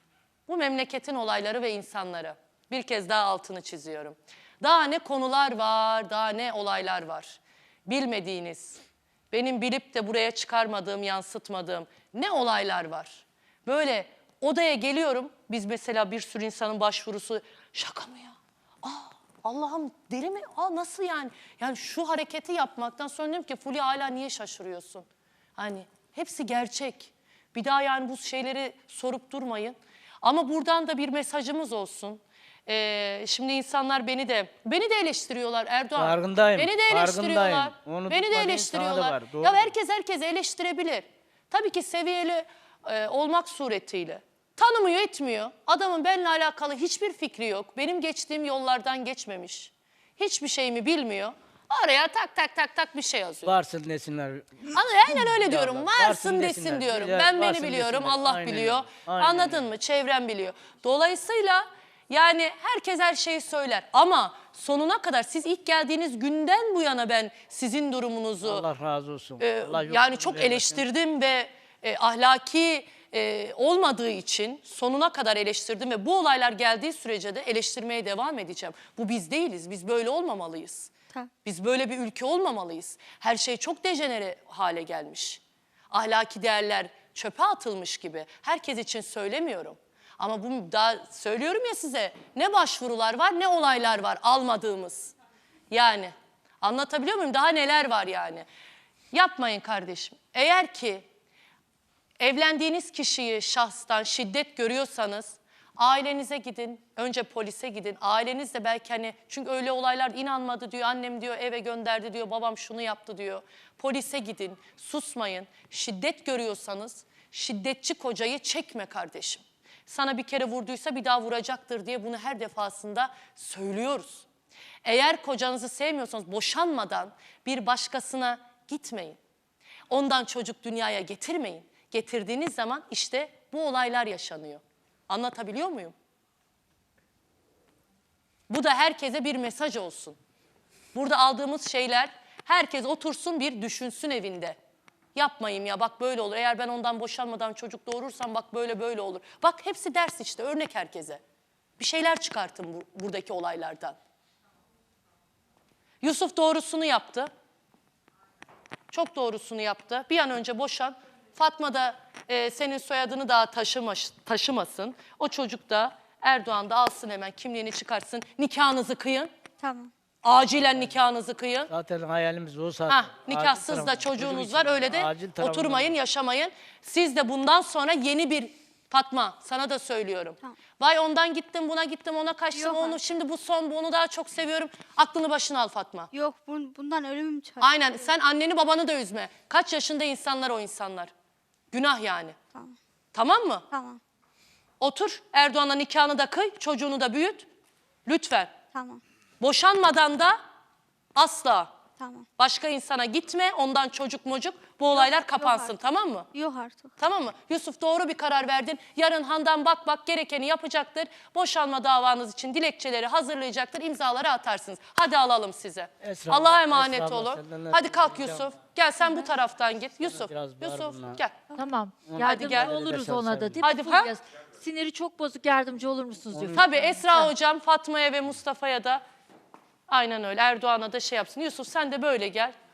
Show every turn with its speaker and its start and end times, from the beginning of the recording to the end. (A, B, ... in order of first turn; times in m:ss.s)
0:00.5-0:53.6 A
0:36.0-0:39.7 B
0:53.4-0:59.6 B
0:54.7-1:08.6 A
1:08.4-1:10.8 B
1:09.4-1:20.9 A
1:21.4-1:35.1 A
1:35.7-1:38.4 A
1:39.1-1:41.1 A
1:42.2-2:04.2 A
2:04.8-2:09.2 A
2:09.9-2:15.9 A
2:18.5-2:20.2 A
2:20.9-2:24.6 A
2:25.1-2:31.2 A
2:31.8-2:34.0 A
2:36.0-2:37.3 A
2:38.9-2:49.3 A
2:49.6-2:49.9 C
2:50.2-2:51.7 A
2:51.7-2:55.9 B
2:52.9-3:06.1 A
3:02.5-3:03.0 C
3:06.1-3:07.8 C
3:07.6-3:11.1 A
3:11.7-3:12.4 A
3:13.1-3:13.6 A
3:13.7-3:14.0 C
3:14.8-3:17.5 A
3:18.1-3:18.5 A
3:18.7-3:19.0 C
3:19.4-3:20.4 A
3:21.1-3:21.7 A
3:22.0-3:22.3 C
3:22.4-3:26.3 A
3:24.9-3:25.8 C
3:26.3-3:26.9 C
3:27.0-3:41.4 A
3:36.0-3:38.5 B
3:40.0-3:41.2 B
3:41.6-3:47.3 D
3:42.1-3:43.6 B
3:42.2-3:42.9 A
3:43.6-3:44.1 A
3:46.3-3:46.6 B
3:46.5-3:49.0 A
3:49.9-3:52.6 A